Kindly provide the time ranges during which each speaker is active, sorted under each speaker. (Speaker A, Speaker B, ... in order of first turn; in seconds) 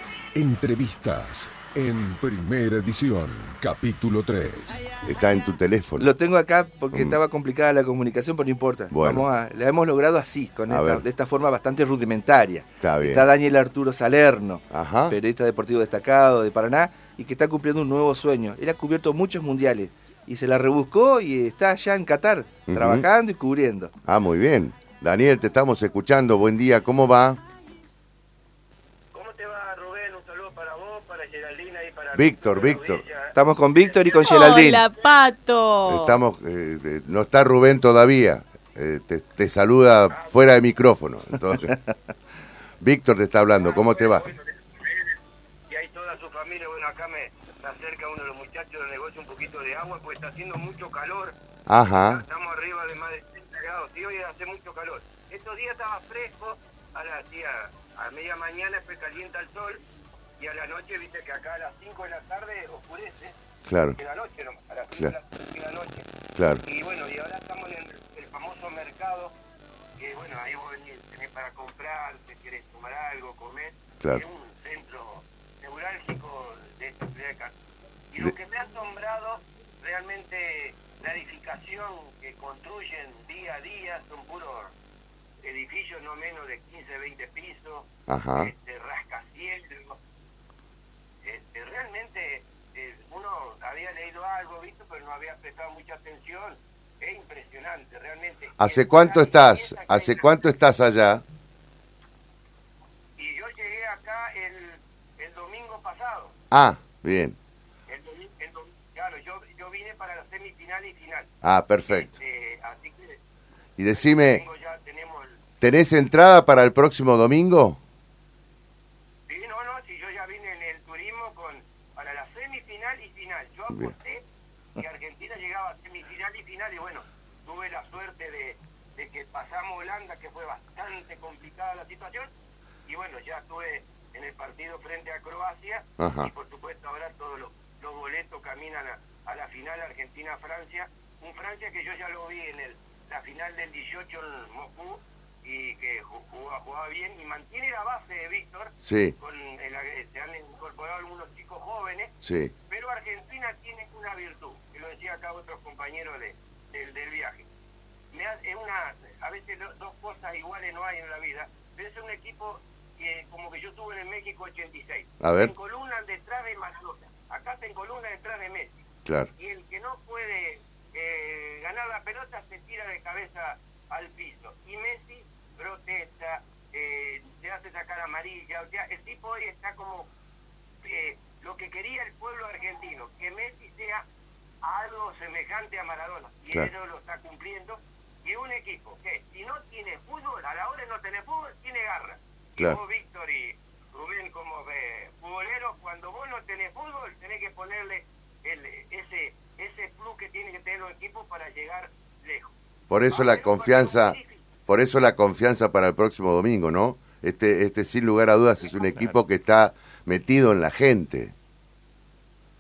Speaker A: 0.3-4.9
Speaker B: 5.0-6.1, 6.9-7.2, 8.9-9.3, 10.7-11.0, 12.8-13.3, 14.7-15.2, 22.7-23.1, 24.1-27.4, 32.1-33.0, 35.9-41.8, 42.8-44.3, 51.7-52.2, 63.7-64.0, 66.3-66.6, 88.1-88.5, 98.6-101.2, 106.5-107.4, 111.4-112.2, 113.8-114.4, 115.6-117.8, 136.0-136.3, 148.8-149.2, 152.2-152.5, 165.2-165.5, 202.9-211.3
Speaker C: 6.0-23.9, 33.3-34.9
Speaker D: 29.1-35.1, 40.1-40.5, 43.6-45.2, 45.7-51.4, 52.1-59.8, 60.4-63.4, 64.0-66.1, 66.6-69.3, 70.0-77.5, 78.1-84.7, 85.4-90.0, 91.2-100.4, 103.2-106.3, 107.9-111.3, 111.8-113.2, 113.9-115.4, 119.3-124.2, 124.8-132.3, 132.9-152.1, 152.7-157.5, 158.1-168.8, 169.4-180.1, 180.8-184.1, 184.6-202.6, 203.1-204.5
Speaker E: 34.2-36.2